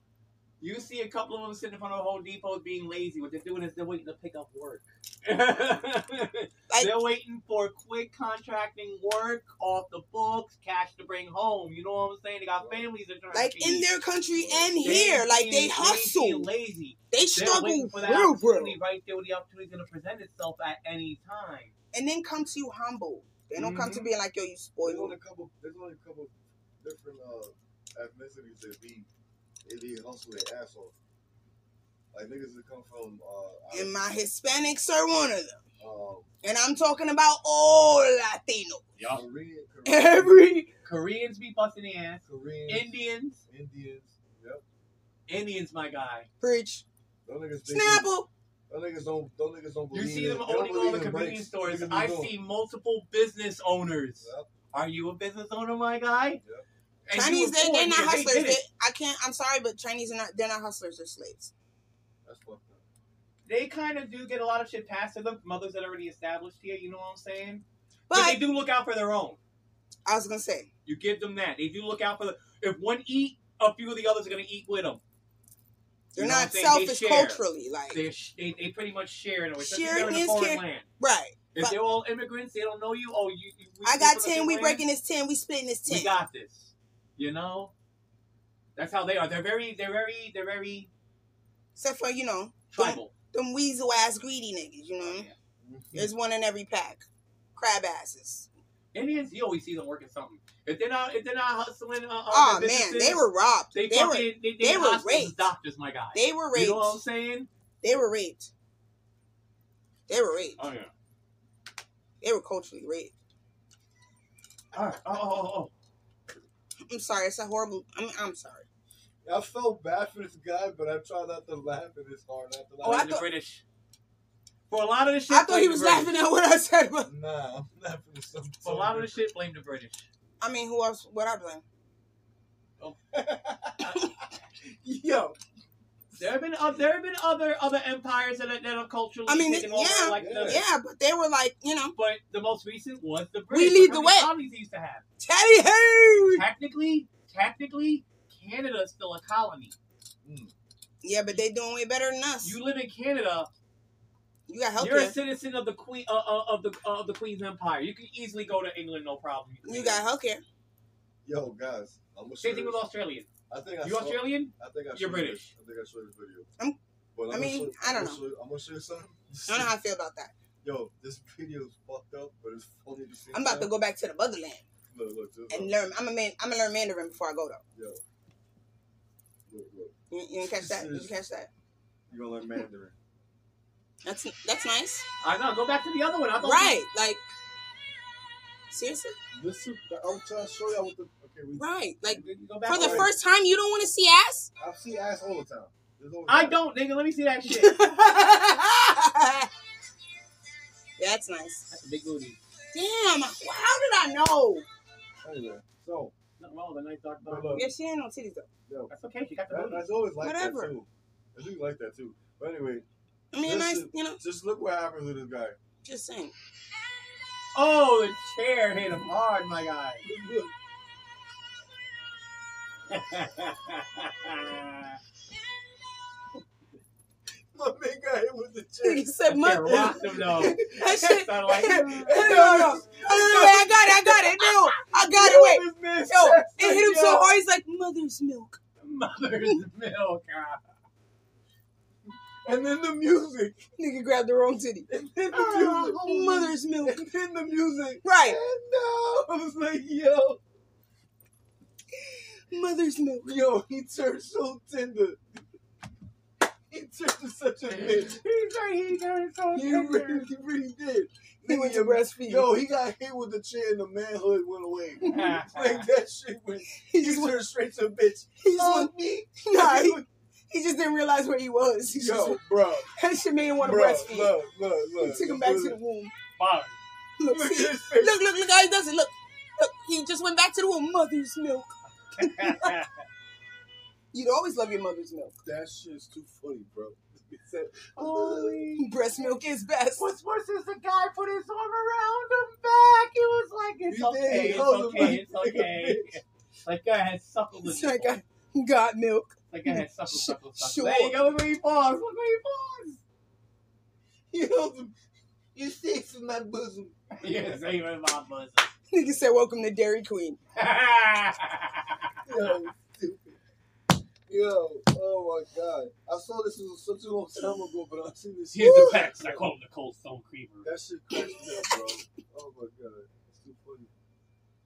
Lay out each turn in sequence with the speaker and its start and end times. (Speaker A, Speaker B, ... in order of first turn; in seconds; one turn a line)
Speaker A: 0.6-13.9
Speaker B: 6.7-6.9
Speaker C: 12.6-12.9
Speaker B: 13.3-16.5
Speaker C: 14.3-15.1
Speaker A: 14.8-21.7
Speaker B: 17.1-18.8
Speaker B: 21.9-25.1
Speaker C: 23.6-24.1
Speaker C: 24.8-29.1
Speaker C: 29.6-30.9
Speaker C: 32.1-34.1
Speaker B: 33.7-35.6
Speaker C: 35.8-36.3
Speaker B: 36.4-38.9
Speaker A: 39.0-39.2
Speaker C: 39.1-40.7
Speaker B: 39.8-40.7
Speaker A: 40.8-43.4
Speaker C: 42.2-42.9
Speaker C: 43.5-44.6
Speaker A: 45.3-46.3
Speaker B: 46.4-46.8
Speaker C: 47.2-48.1
Speaker B: 47.7-48.3
Speaker C: 48.7-52.3
Speaker A: 49.9-56.4
Speaker C: 54.2-54.5
Speaker C: 56.4-56.6
Speaker A: 57.0-58.6
Speaker B: 57.1-61.5
Speaker C: 62.2-62.8
Speaker A: 63.5-69.4
Speaker B: 68.1-68.4
Speaker B: 70.0-70.7
Speaker A: 70.8-75.0
Speaker B: 76.1-78.0
Speaker A: 76.2-80.9
Speaker B: 79.6-81.8
Speaker A: 81.5-84.8
Speaker B: 83.8-86.2
Speaker A: 85.9-87.7
Speaker A: 88.8-90.9
Speaker B: 91.8-95.3
Speaker A: 92.7-93.1
Speaker A: 95.0-95.3
Speaker C: 95.6-96.1
Speaker B: 95.9-97.0
Speaker B: 97.5-98.5
Speaker A: 98.9-107.5
Speaker B: 102.3-105.5
Speaker B: 106.1-107.0
Speaker B: 107.8-108.5
Speaker B: 110.1-110.6
Speaker A: 110.6-110.9
Speaker B: 112.2-113.1
Speaker A: 114.7-115.7
Speaker B: 116.9-118.7
Speaker C: 119.2-123.1
Speaker A: 122.8-123.6
Speaker B: 122.8-123.3
Speaker A: 124.7-126.1
Speaker B: 125.3-127.1
Speaker C: 127.0-129.2
Speaker A: 128.6-130.1
Speaker B: 130.4-131.6
Speaker A: 132.8-134.1
Speaker A: 134.8-135.3
Speaker A: 136.2-140.6
Speaker B: 139.3-141.9
Speaker C: 140.1-140.6
Speaker A: 141.9-145.0
Speaker B: 143.5-144.3
Speaker B: 145.2-146.4
Speaker A: 146.3-149.7
Speaker C: 150.2-150.5
Speaker B: 151.0-152.6
Speaker A: 152.4-153.5
Speaker B: 154.5-155.1
Speaker A: 154.8-160.0
Speaker B: 159.6-160.4
Speaker C: 161.2-162.8
Speaker A: 162.4-163.3
Speaker C: 163.5-166.5
Speaker A: 163.8-165.5
Speaker C: 167.1-169.7
Speaker B: 167.3-168.2
Speaker B: 169.5-170.3
Speaker C: 170.6-173.7
Speaker B: 173.3-174.6
Speaker C: 174.9-175.7
Speaker B: 175.5-177.6
Speaker C: 177.7-178.0
Speaker C: 179.5-181.1
Speaker B: 180.1-181.5
Speaker C: 182.1-182.9
Speaker B: 184.0-185.0
Speaker A: 185.2-186.8
Speaker B: 186.4-187.2
Speaker B: 188.7-189.2
Speaker C: 189.3-191.7
Speaker B: 191.6-194.5
Speaker A: 192.1-193.1
Speaker C: 192.7-193.1
Speaker C: 194.6-196.6
Speaker A: 196.3-197.8
Speaker B: 197.5-199.5
Speaker B: 201.0-201.7
Speaker A: 201.7-202.4
Speaker B: 202.7-204.6
Speaker C: 205.2-206.1
Speaker A: 206.4-207.7
Speaker C: 207.2-207.7
Speaker B: 207.5-208.5
Speaker A: 208.9-209.9
Speaker C: 209.5-212.8
Speaker B: 210.2-210.7
Speaker B: 213.3-214.2
Speaker C: 213.4-215.6
Speaker B: 215.8-216.3
Speaker A: 217.5-220.0
Speaker C: 220.0-220.5
Speaker A: 222.9-225.0
Speaker C: 227.5-237.4
Speaker B: 228.8-238.6
Speaker A: 229.3-232.1
Speaker A: 238.8-240.7
Speaker C: 242.4-243.6
Speaker B: 243.8-244.9
Speaker C: 244.9-250.4
Speaker A: 245.3-245.9
Speaker B: 245.8-247.0
Speaker B: 248.0-248.4
Speaker B: 252.0-253.4
Speaker C: 253.2-255.2
Speaker C: 256.7-258.2
Speaker A: 257.7-260.3
Speaker C: 259.5-270.1
Speaker B: 261.4-262.5
Speaker A: 265.0-265.9
Speaker B: 266.8-267.4
Speaker B: 268.4-268.9
Speaker B: 269.4-272.4
Speaker C: 271.9-272.9
Speaker B: 272.9-274.3
Speaker C: 273.6-275.8
Speaker B: 275.0-276.1
Speaker A: 276.4-276.8
Speaker B: 277.2-282.7
Speaker C: 277.3-278.2
Speaker A: 282.2-282.9
Speaker B: 284.1-285.4
Speaker C: 285.4-288.7
Speaker A: 287.9-288.9
Speaker B: 288.8-290.0
Speaker A: 290.0-298.2
Speaker C: 293.9-296.2
Speaker B: 297.6-301.4
Speaker A: 299.5-303.0
Speaker C: 304.3-304.9
Speaker C: 305.5-307.6
Speaker A: 307.2-308.7
Speaker B: 308.9-310.4
Speaker A: 310.5-312.0
Speaker C: 312.2-313.4
Speaker C: 314.3-319.5
Speaker A: 318.5-320.8
Speaker C: 320.6-323.9
Speaker B: 321.2-321.7